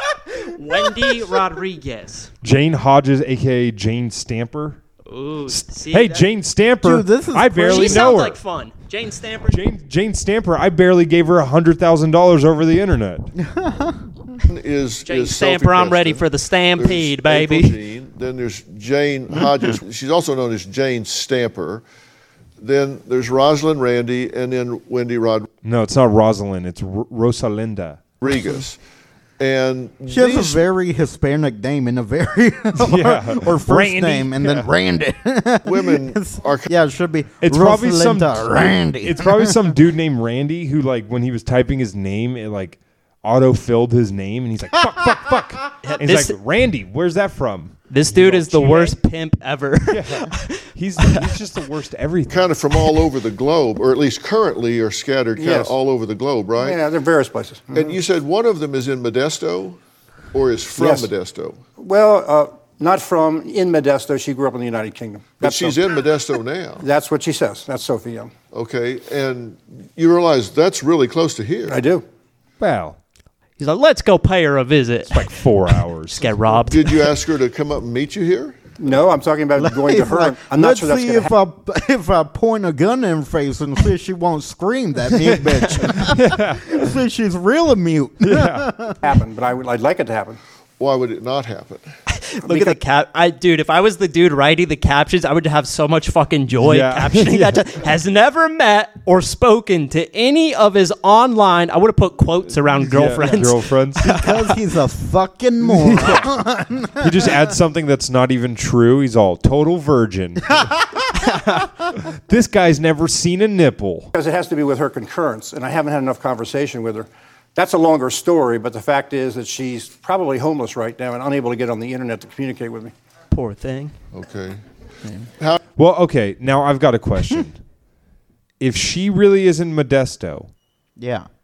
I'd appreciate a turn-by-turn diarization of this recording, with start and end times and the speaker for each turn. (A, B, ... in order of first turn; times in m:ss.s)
0:00.5-0:02.3 A
0:02.4-0:04.8 B
0:05.1-0:06.2 A
0:05.5-0:08.4 B
0:06.8-0:08.2 C
0:07.7-0:09.6 A
0:09.5-0:13.3 B
0:13.4-0:14.0 C
0:14.5-0:21.8 D
0:15.0-0:17.8 A
0:22.6-0:25.5 D
0:25.6-0:28.0 B
0:28.2-0:28.8 D
0:29.4-0:30.6 D
0:30.1-0:39.7 C
0:32.8-0:34.7 B
0:35.6-0:36.7 D
0:37.4-0:49.0 B
0:45.8-0:46.4 A
0:47.9-0:51.3 A
0:49.9-0:52.5 B
0:52.3-0:56.8 D
0:55.4-0:55.8 E
0:56.6-0:58.0 E
0:57.7-0:59.8 D
1:00.3-1:01.6 D
1:00.8-1:01.1 E
1:01.8-1:05.8 E
1:05.4-1:06.8 D
1:06.8-1:08.3 E
1:08.5-1:11.8 D
1:11.7-1:12.0 E
1:12.6-1:13.0 B
1:13.6-1:15.4 A
1:15.1-1:16.3 B
1:16.1-1:17.0 A
1:16.6-1:18.6 D
1:18.8-1:21.3 E
1:19.6-1:29.0 C
1:25.1-1:26.9 B
1:28.2-1:28.7 B
1:29.0-1:30.4 E
1:30.8-1:31.9 D
1:32.1-1:44.4 A
1:32.4-1:32.8 E
1:36.6-1:37.7 B
1:42.6-1:44.2 B
1:44.0-1:47.4 C
1:45.6-1:46.3 B
1:47.0-1:50.7 B
1:52.0-1:54.1 B
1:54.1-2:02.9 E
2:03.3-2:03.9 A
2:04.1-2:04.6 D
2:05.8-2:07.6 B
2:08.6-2:10.5 B
2:11.0-2:11.3 C